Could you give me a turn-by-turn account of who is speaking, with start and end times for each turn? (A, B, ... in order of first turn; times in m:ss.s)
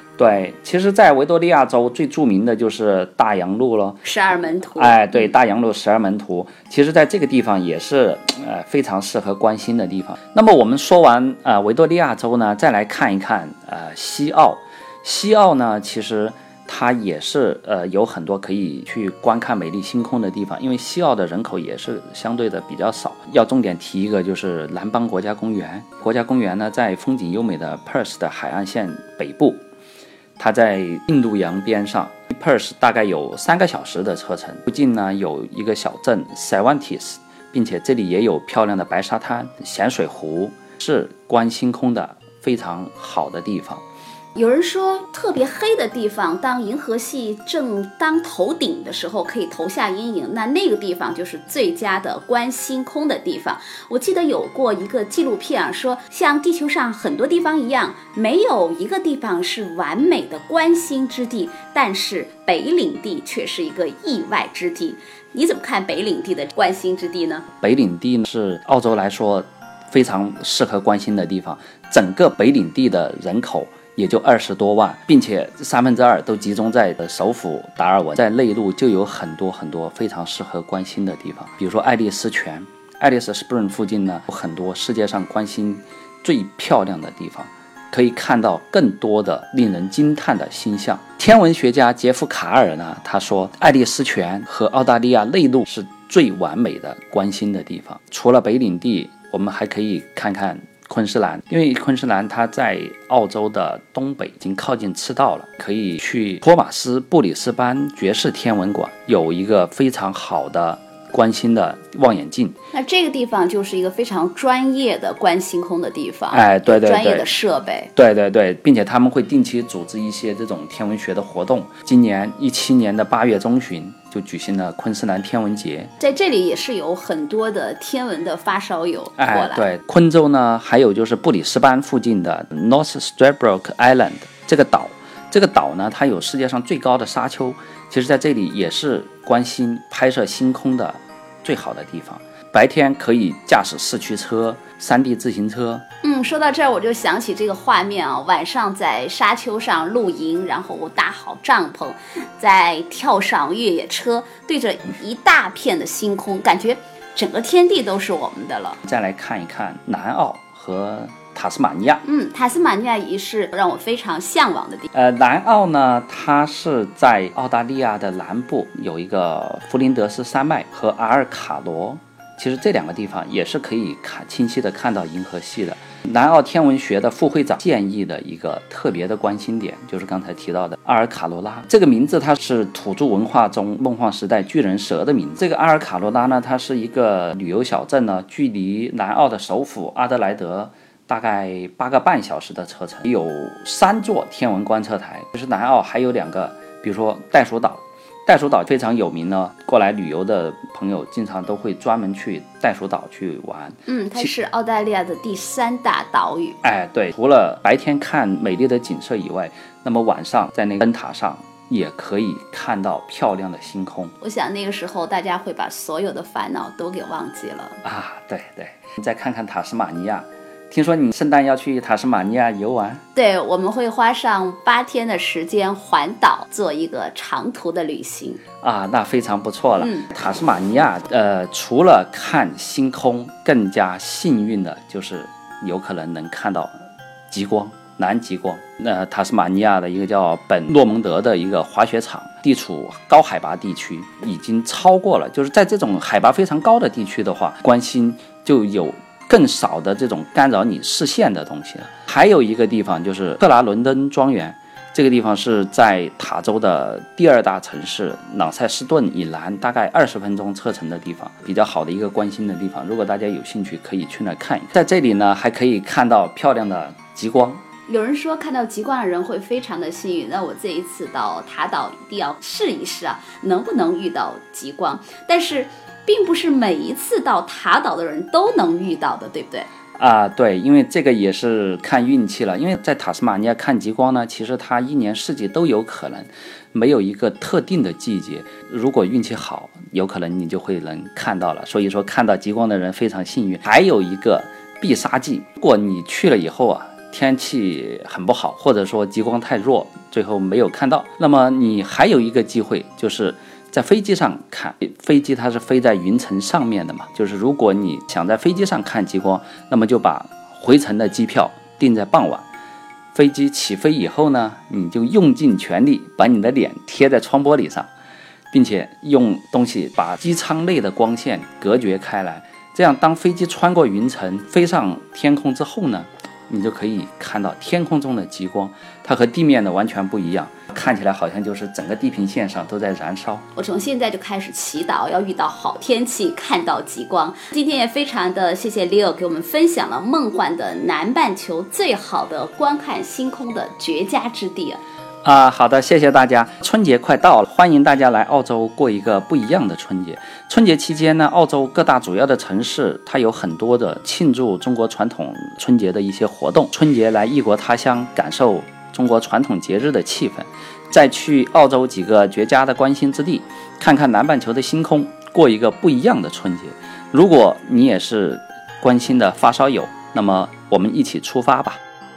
0:00.2-0:04.0 A
0:04.0-0:05.3 B
0:04.7-0:29.6 A
0:30.4-0:43.8 A
0:44.3-1:07.4 B
1:07.6-1:52.6 A
1:52.7-1:57.9 B
1:56.3-1:57.3 A
1:57.9-2:05.9 A
2:06.0-2:09.7 B
2:09.2-2:25.8 A
2:26.0-2:38.8 B
2:38.8-2:42.0 A
2:42.0-2:44.9 B
2:44.9-3:24.3 A
3:23.9-3:26.6 B
3:26.6-3:34.1 A
3:34.2-3:37.8 B
3:37.8-3:43.0 A
3:43.1-3:48.4 B
3:48.6-4:27.6 A
3:49.8-3:50.1 B
4:27.8-4:39.7 B
4:40.0-5:12.4 A
5:13.1-5:17.9 A
5:18.5-5:33.4 A
5:33.5-5:44.8 B
5:45.2-6:11.8 A